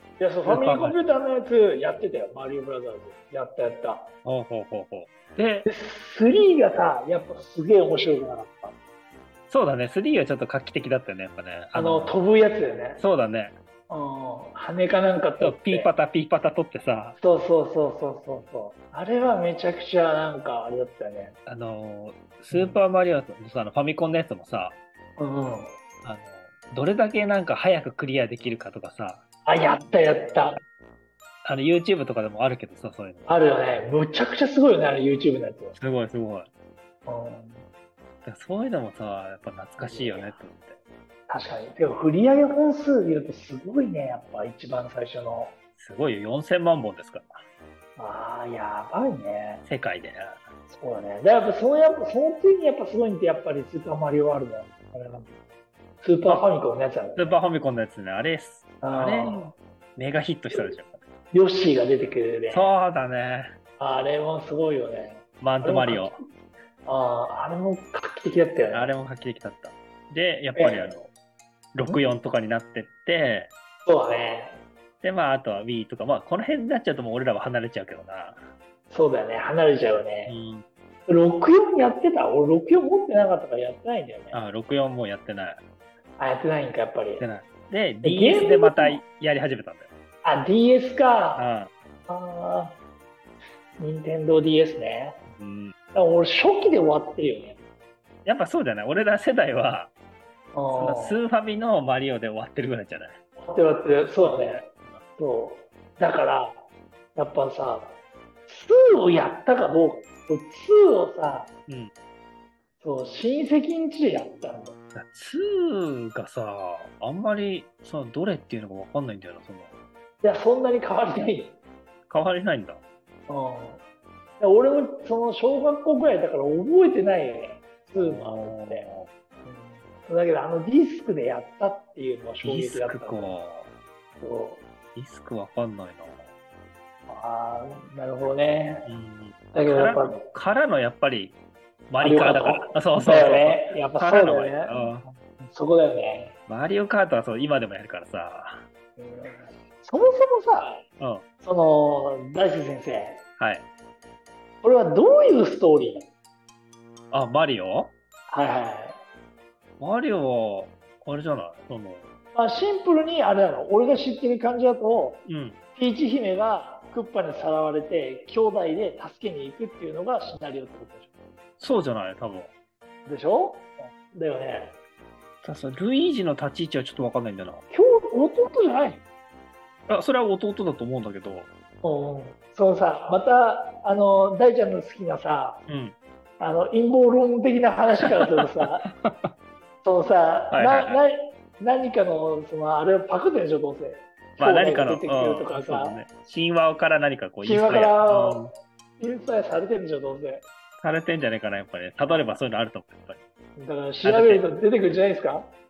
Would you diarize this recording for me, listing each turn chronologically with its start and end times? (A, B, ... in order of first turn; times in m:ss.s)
0:00.2-0:04.1 A
0:00.5-0:01.0 B
0:04.2-0:05.7 B
0:05.6-0:08.8 A
0:09.5-0:12.2 B
0:11.7-0:13.0 A
0:13.0-0:13.6 B
0:13.9-0:15.9 A
0:15.4-0:17.2 B
0:17.2-0:21.4 A
0:21.5-0:24.8 B
0:22.5-0:22.8 A
0:25.2-0:25.8 A
0:26.0-0:29.2 B
0:29.5-0:30.6 A
0:31.4-0:33.3 B
0:33.3-0:35.8 A
0:35.7-0:36.5 B
0:37.1-0:37.6 A
0:38.2-0:40.8 B
0:39.8-0:40.4 A
0:41.3-0:45.6 A
0:45.8-0:47.4 B
0:48.0-0:49.6 A
0:49.6-0:50.4 B
0:50.7-0:55.3 A
0:56.0-0:57.4 A
0:57.2-1:01.0 B
0:58.8-0:59.6 A
1:01.3-1:02.8 A
1:02.5-1:03.5 B
1:03.8-1:06.2 A
1:05.4-1:06.2 B
1:06.8-1:08.9 A
1:08.7-1:11.1 B
1:10.6-1:11.0 A
1:11.7-1:13.5 B
1:13.8-1:14.6 A
1:15.0-1:18.5 B
1:18.9-1:20.4 A
1:20.3-1:20.6 B
1:21.1-1:24.4 A
1:24.3-1:25.6 B
1:26.2-1:27.2 A
1:27.2-1:29.9 B
1:28.0-1:29.0 A
1:30.2-1:31.5 A
1:31.4-1:31.7 B
1:32.1-1:32.8 A
1:33.8-1:35.2 A
1:35.4-1:35.8 B
1:35.9-1:37.6 A
1:38.2-1:39.9 B
1:40.5-1:41.2 A
1:40.7-1:43.2 B
1:43.4-1:46.6 A
1:44.2-1:45.0 B
1:47.2-1:51.5 A
1:52.8-1:54.8 A
1:55.0-1:59.8 B
2:00.2-2:01.6 A
2:02.1-2:02.8 B
2:03.3-2:03.8 A
2:04.4-2:08.9 A
2:08.0-2:09.1 B
2:09.4-2:13.4 A
2:12.4-2:13.7 B
2:14.2-2:14.6 A
2:15.0-2:16.3 B
2:17.1-2:18.9 A
2:18.8-2:21.4 B
2:19.5-2:20.2 A
2:21.9-2:25.1 B
2:22.0-2:26.4 A
2:26.5-2:28.6 B
2:29.0-2:30.8 A
2:31.0-2:31.2 B
2:31.4-2:33.2 A
2:33.4-2:33.7 B
2:34.6-2:36.1 A
2:37.1-2:37.9 B
2:38.3-2:39.0 A
2:39.8-2:42.1 B
2:42.4-2:45.2 A
2:45.3-2:45.6 B
2:45.8-2:51.1 A
2:51.6-2:52.5 B
2:53.1-2:54.8 A
2:55.4-2:57.6 B
2:57.7-2:59.0 A
2:59.9-3:01.5 B
3:01.8-3:05.6 A
3:05.7-3:06.0 B
3:06.4-3:08.9 A
3:08.8-3:09.3 B
3:09.8-3:16.0 A
3:10.5-3:11.0 B
3:14.4-3:18.5 B
3:17.4-3:18.5 A
3:19.0-3:20.4 A
3:20.8-3:23.2 B
3:22.0-3:22.3 A
3:23.6-3:25.5 A
3:24.0-3:24.4 B